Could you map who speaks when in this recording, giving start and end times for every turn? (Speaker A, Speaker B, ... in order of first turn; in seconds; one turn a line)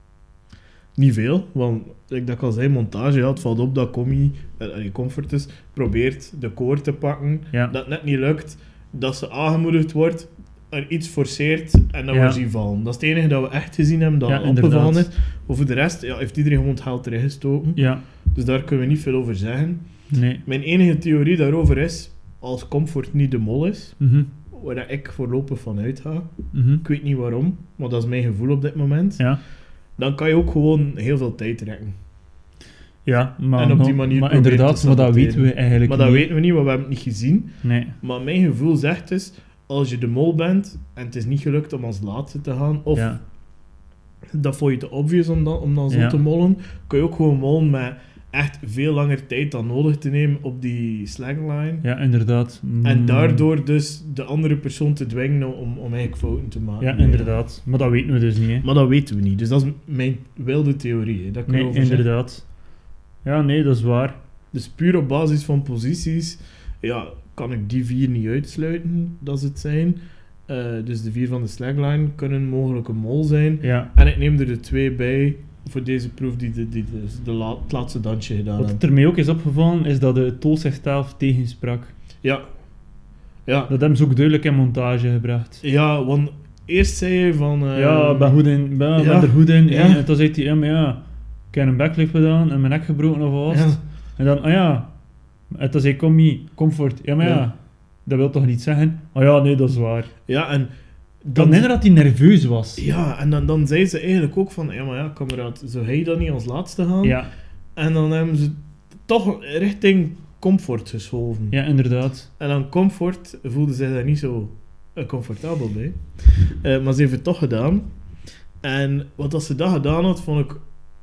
Speaker A: 1.0-19.8
Speaker B: 12.1-12.4
Speaker B: 14.3-15.1
Speaker B: 17.8-18.0
Speaker B: 20.1-20.4
Speaker A: 20.4-24.0
Speaker B: 24.0-24.3
Speaker A: 24.5-29.2
Speaker B: 26.5-26.8
Speaker A: 30.0-31.9
Speaker B: 33.0-36.3
Speaker A: 33.6-43.1
Speaker B: 37.6-38.0
Speaker B: 43.0-43.2
Speaker A: 44.4-51.9
Speaker B: 45.9-46.2
Speaker B: 51.8-53.5
Speaker A: 52.8-57.3
Speaker B: 56.8-58.7
Speaker A: 58.6-62.1
Speaker B: 61.5-62.4
Speaker B: 63.2-64.2
Speaker A: 64.5-78.8
Speaker B: 73.6-73.9
Speaker B: 78.6-81.9
Speaker A: 83.5-83.7
Speaker B: 83.7-85.6
Speaker A: 85.6-88.4
Speaker B: 87.8-94.9
Speaker A: 89.0-90.0
Speaker A: 93.5-93.8
Speaker B: 95.5-100.1
Speaker A: 97.2-97.5
Speaker A: 100.3-100.7
Speaker A: 101.2-101.7
Speaker B: 101.3-102.8
Speaker A: 102.8-107.2
Speaker B: 107.0-107.3
Speaker A: 107.8-111.6
Speaker B: 111.5-112.3
Speaker A: 112.4-117.9
Speaker A: 118.6-120.7